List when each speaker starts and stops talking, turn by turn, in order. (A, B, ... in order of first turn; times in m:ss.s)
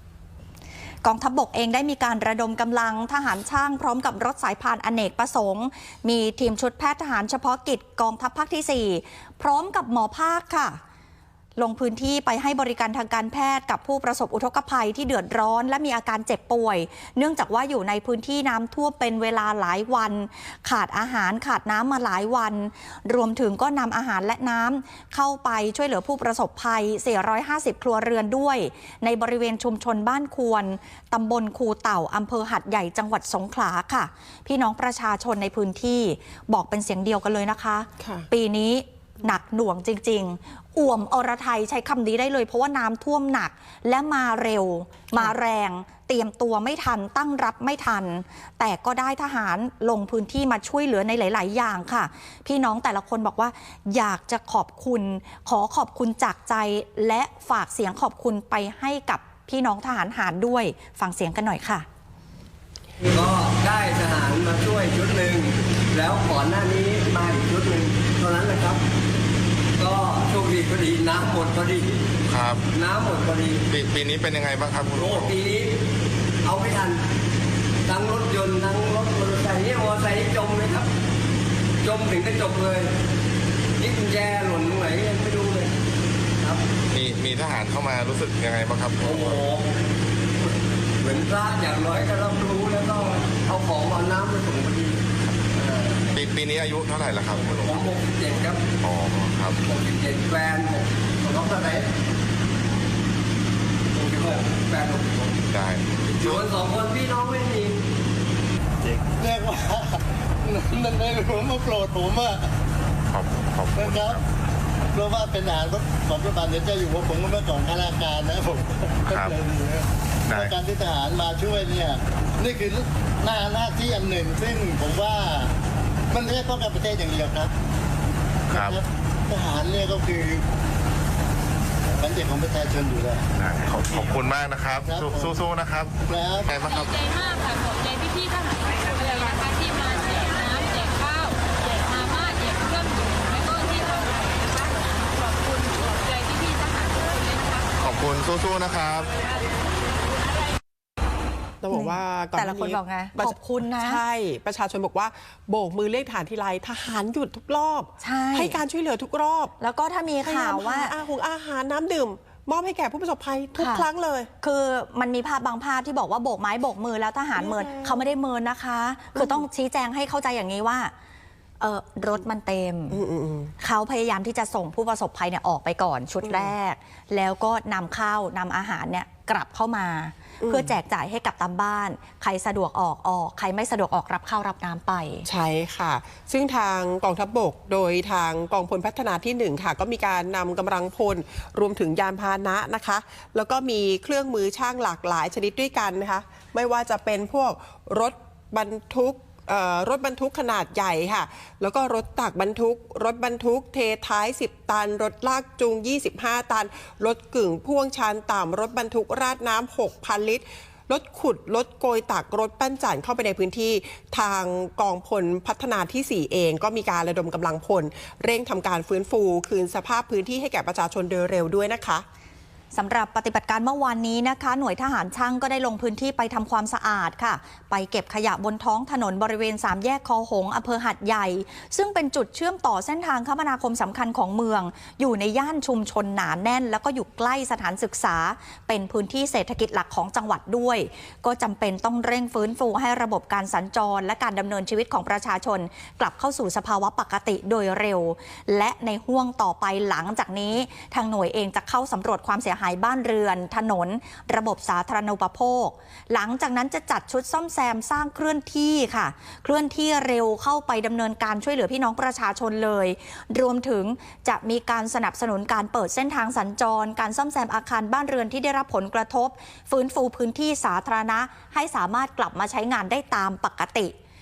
0:01.0-0:10.8 A
0:11.6-1:01.8 A
0:38.0-0:38.3 B
1:03.0-1:08.8 C
1:09.8-1:12.0 C
1:12.3-1:12.6 D
1:12.7-1:13.6 C
1:13.7-1:15.3 D
1:14.9-1:15.8 C
1:16.4-1:17.0 C
1:17.8-1:20.9 C
1:21.8-1:22.9 C
1:23.8-1:25.7 C
1:26.9-1:29.4 D
1:29.0-1:29.7 C
1:31.0-1:36.2 C
1:36.1-1:37.9 D
1:37.6-1:38.7 C
1:38.8-1:39.6 D
1:39.6-1:41.8 C
1:41.3-1:41.9 E
1:43.9-1:45.4 C
1:45.5-1:46.4 D
1:46.0-1:47.8 C
1:49.2-1:52.5 E
1:53.1-1:54.2 D
1:53.8-1:54.2 E
1:54.9-2:05.5 E
1:59.1-1:59.4 D
2:00.3-2:00.5 D
2:06.1-2:07.5 E
2:08.5-2:08.8 D
2:08.5-2:10.4 E
2:12.0-2:13.3 E
2:13.4-2:15.9 D
2:14.8-2:15.4 E
2:16.0-2:16.5 E
2:16.4-2:17.0 D
2:16.8-2:27.6 F
2:27.8-2:29.1 D
2:31.6-2:39.5 B
2:31.7-2:34.0 A
2:38.0-2:38.6 A
2:39.6-2:40.9 A
2:40.2-2:44.3 B
2:43.6-2:43.8 A
2:44.4-2:50.9 A
2:47.4-2:48.0 B
2:49.2-2:49.4 B
2:51.6-2:53.0 A
2:52.9-2:53.5 B
2:53.6-3:05.2 A
2:56.2-2:56.5 B
3:00.4-3:00.8 B
3:05.2-3:42.0 B
3:42.7-4:33.9 A